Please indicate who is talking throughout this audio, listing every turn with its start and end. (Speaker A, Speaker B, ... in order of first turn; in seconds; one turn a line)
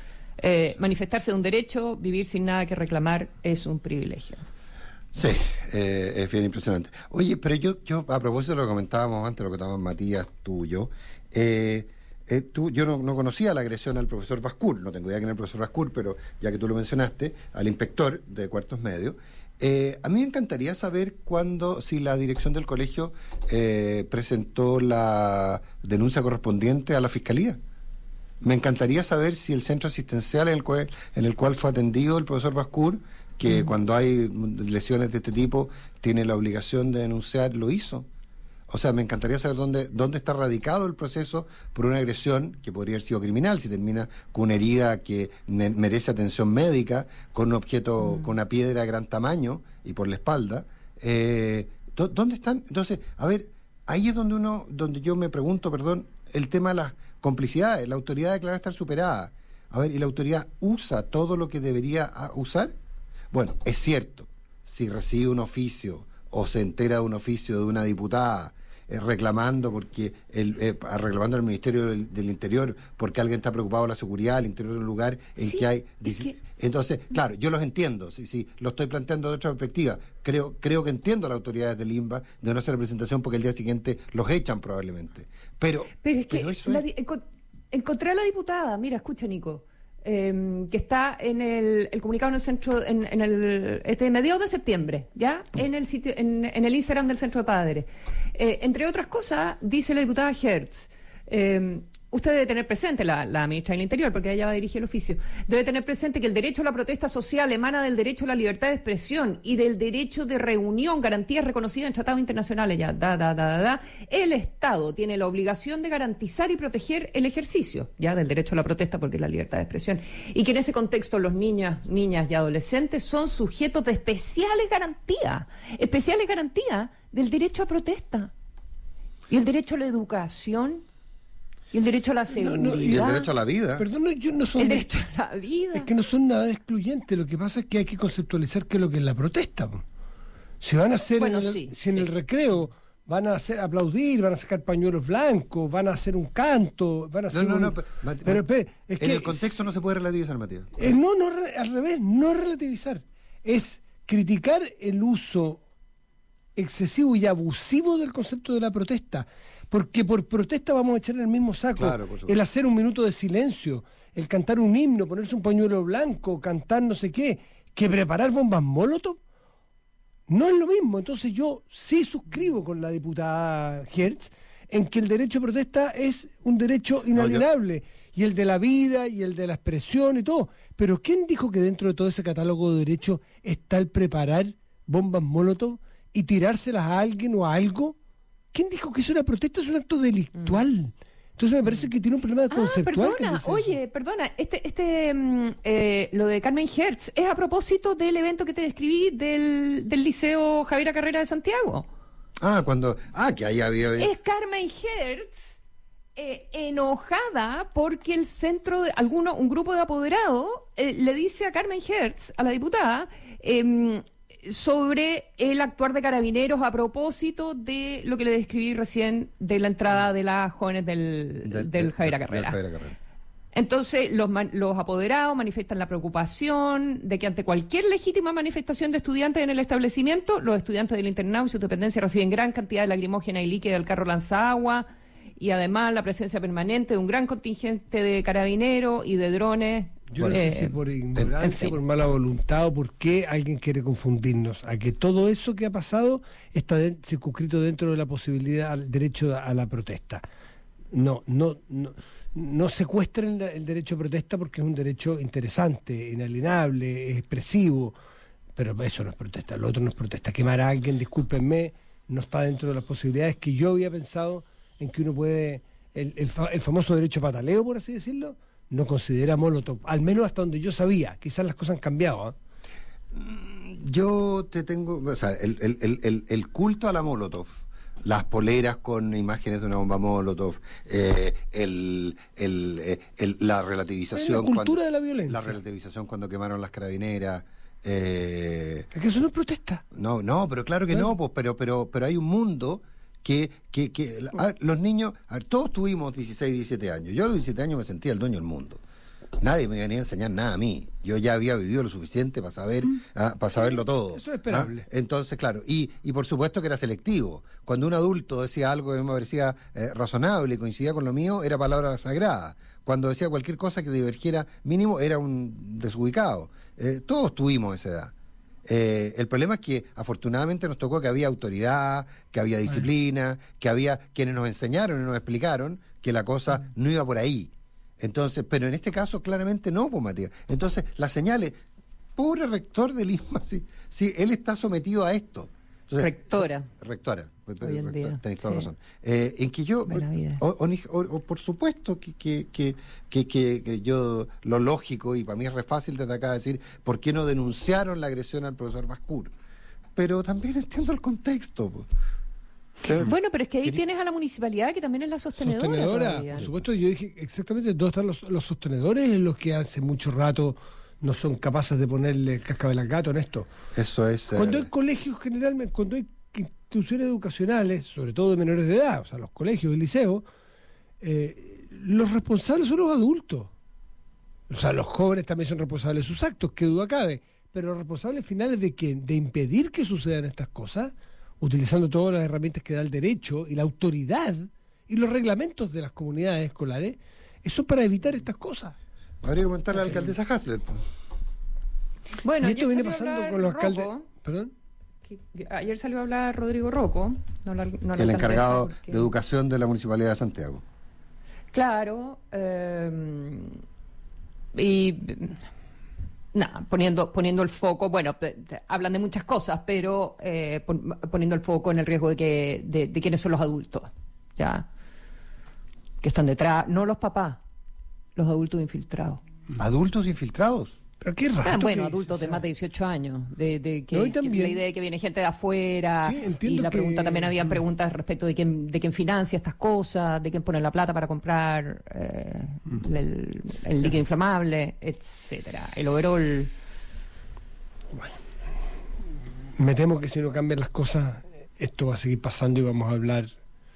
Speaker A: 0.4-4.5
Speaker B: 5.1-27.6
Speaker B: 28.4-38.1
Speaker B: 38.7-62.8
Speaker A: 48.0-48.3
Speaker B: 63.3-86.8
Speaker A: 75.4-76.3
Speaker A: 86.0-128.3
Speaker A: 129.3-130.8
Speaker A: 131.7-133.3
Speaker C: 132.3-133.2
Speaker B: 132.9-133.9
Speaker C: 133.8-134.9
Speaker A: 134.6-135.9
Speaker C: 135.7-139.8
Speaker C: 140.6-149.7
Speaker A: 141.2-142.1
Speaker B: 147.3-148.4
Speaker B: 149.0-151.0
Speaker C: 150.8-155.6
Speaker C: 156.6-169.2
Speaker B: 161.8-162.4
Speaker C: 170.3-188.0
Speaker B: 177.2-177.5
Speaker C: 188.5-193.8
Speaker A: 192.5-201.9
Speaker B: 202.4-204.1
Speaker A: 204.0-205.6
Speaker A: 206.2-222.6
Speaker B: 221.4-223.0
Speaker A: 223.5-234.9
Speaker A: 235.4-240.8
Speaker C: 240.1-250.2
Speaker B: 240.2-240.5
Speaker A: 241.4-241.8
Speaker C: 250.9-258.0
Speaker C: 258.6-272.4
Speaker B: 273.1-288.9
Speaker C: 284.1-285.6
Speaker C: 288.9-289.8
Speaker B: 289.9-298.8
Speaker B: 299.4-318.1
Speaker C: 303.6-304.9
Speaker B: 318.6-331.6
Speaker B: 332.2-349.3
Speaker A: 336.0-336.7
Speaker A: 337.6-338.7
Speaker A: 339.9-340.4
Speaker B: 350.0-351.9
Speaker B: 352.8-353.8
Speaker A: 353.0-356.5
Speaker C: 355.4-363.5
Speaker B: 363.7-364.7
Speaker C: 364.4-370.2
Speaker C: 371.0-373.5
Speaker C: 374.5-388.8
Speaker B: 389.2-390.9
Speaker A: 392.2-394.0
Speaker C: 392.4-394.5
Speaker A: 395.1-399.1
Speaker B: 398.0-400.6
Speaker A: 401.5-403.6
Speaker A: 404.6-405.4
Speaker A: 406.3-414.6
Speaker A: 416.0-417.4
Speaker A: 418.2-419.2
Speaker B: 419.6-420.8
Speaker C: 421.0-422.4
Speaker A: 421.4-436.5
Speaker C: 423.9-424.6
Speaker C: 426.0-427.6
Speaker C: 439.6-443.3